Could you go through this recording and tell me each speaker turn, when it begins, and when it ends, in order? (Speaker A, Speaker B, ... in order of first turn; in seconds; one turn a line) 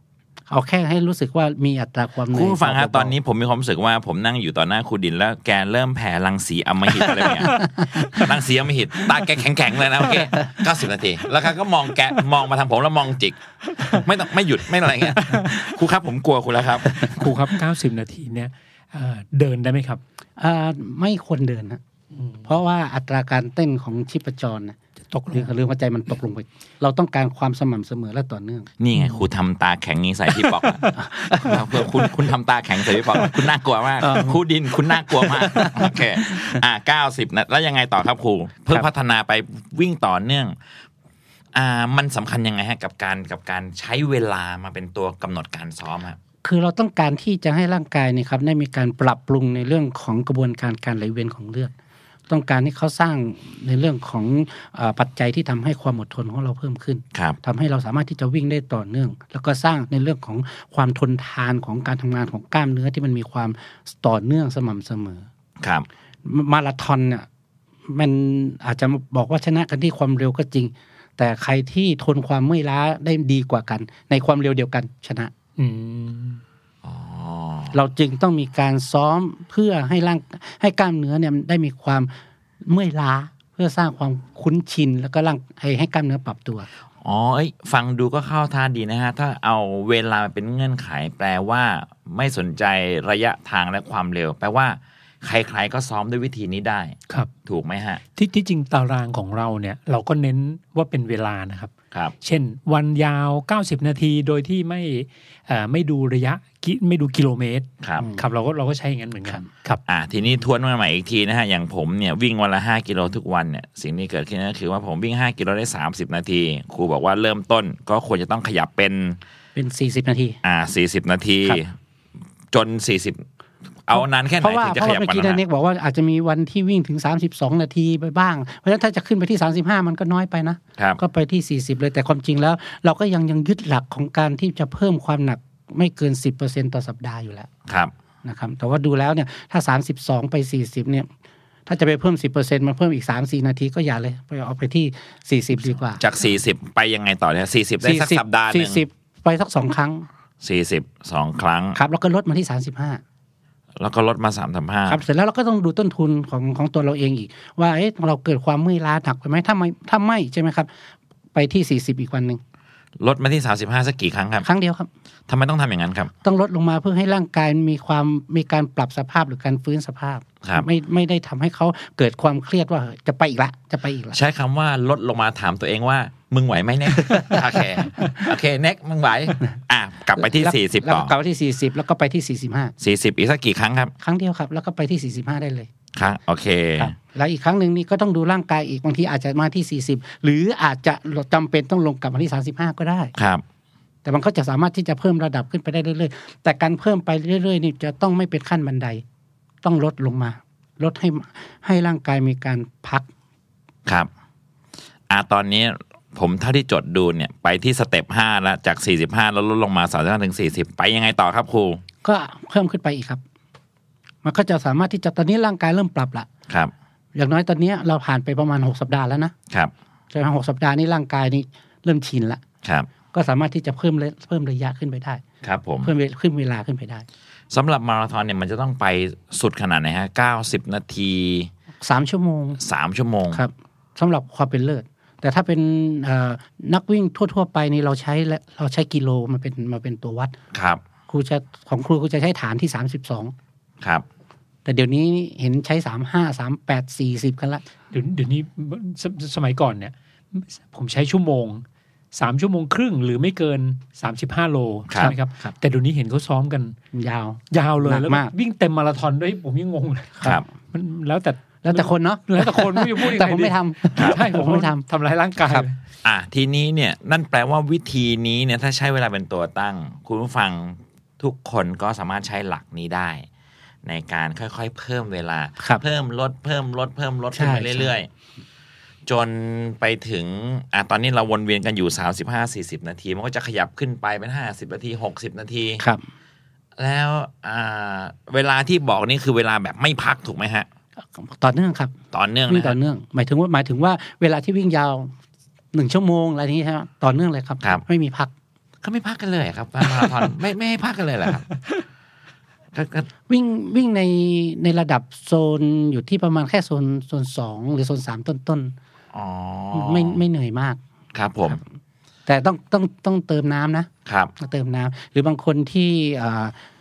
Speaker A: 0.5-3.1
Speaker B: 2.3-17.3
Speaker C: 15.2-15.5
Speaker C: 16.9-20.0
Speaker A: 20.4-21.8
Speaker C: 22.1-22.4
Speaker A: 22.4-24.8
Speaker C: 25.1-25.5
Speaker A: 25.3-28.7
Speaker B: 28.8-40.5
Speaker A: 30.9-31.6
Speaker A: 34.0-34.4
Speaker A: 35.1-36.6
Speaker B: 41.5-46.2
Speaker A: 46.4-51.7
Speaker A: 52.3-65.2
Speaker B: 65.6-65.9
Speaker A: 66.2-67.3
Speaker A: 67.9-75.3
Speaker C: 75.6-76.4
Speaker B: 76.8-77.8
Speaker A: 77.7-82.1
Speaker A: 82.7-86.7
Speaker B: 87.0-98.0
Speaker C: 98.2-101.7
Speaker C: 102.2-109.8
Speaker B: 107.8-108.1
Speaker B: 109.9-119.2
Speaker A: 119.5-120.4
Speaker B: 120.4-121.7
Speaker B: 122.5-123.2
Speaker B: 123.9-125.4
Speaker A: 124.4-137.5
Speaker B: 137.7-137.9
Speaker A: 138.2-141.1
Speaker A: 141.7-146.0
Speaker B: 146.0-148.8
Speaker A: 147.8-150.1
Speaker B: 150.4-151.8
Speaker A: 151.7-153.0
Speaker B: 153.8-155.0
Speaker A: 154.9-160.7
Speaker A: 161.3-162.4
Speaker B: 163.0-164.5
Speaker A: 164.4-164.9
Speaker B: 165.3-166.1
Speaker A: 166.2-174.2
Speaker B: 174.1-181.1
Speaker A: 180.2-182.7
Speaker B: 182.8-183.9
Speaker A: 184.0-185.7
Speaker B: 185.9-186.9
Speaker A: 186.8-193.1
Speaker B: 193.2-193.4
Speaker A: 194.0-199.0
Speaker A: 199.6-203.1
Speaker B: 205.1-211.8
Speaker A: 212.0-213.2
Speaker A: 214.2-216.3
Speaker A: 217.1-219.3
Speaker A: 220.1-222.4
Speaker B: 222.6-222.9
Speaker A: 223.1-225.2
Speaker B: 225.4-225.9
Speaker A: 225.8-227.1
Speaker B: 227.5-231.5
Speaker A: 231.8-232.6
Speaker B: 232.6-233.4
Speaker A: 233.3-240.3
Speaker B: 240.5-240.8
Speaker A: 241.1-243.3
Speaker A: 244.7-247.6
Speaker C: 247.9-256.8
Speaker A: 255.0-255.5
Speaker A: 256.9-258.3
Speaker C: 257.5-265.8
Speaker A: 261.6-264.8
Speaker B: 266.0-273.2
Speaker B: 273.8-278.1
Speaker A: 277.3-277.9
Speaker B: 279.1-285.8
Speaker A: 285.8-286.0
Speaker B: 286.8-290.7
Speaker A: 291.2-291.9
Speaker B: 292.1-292.8
Speaker A: 292.5-295.1
Speaker A: 295.7-298.3
Speaker B: 298.8-301.4
Speaker B: 302.7-303.1
Speaker A: 303.3-308.7
Speaker B: 309.1-310.2
Speaker A: 309.7-310.8
Speaker B: 311.1-311.6
Speaker A: 312.3-316.5
Speaker B: 314.1-314.3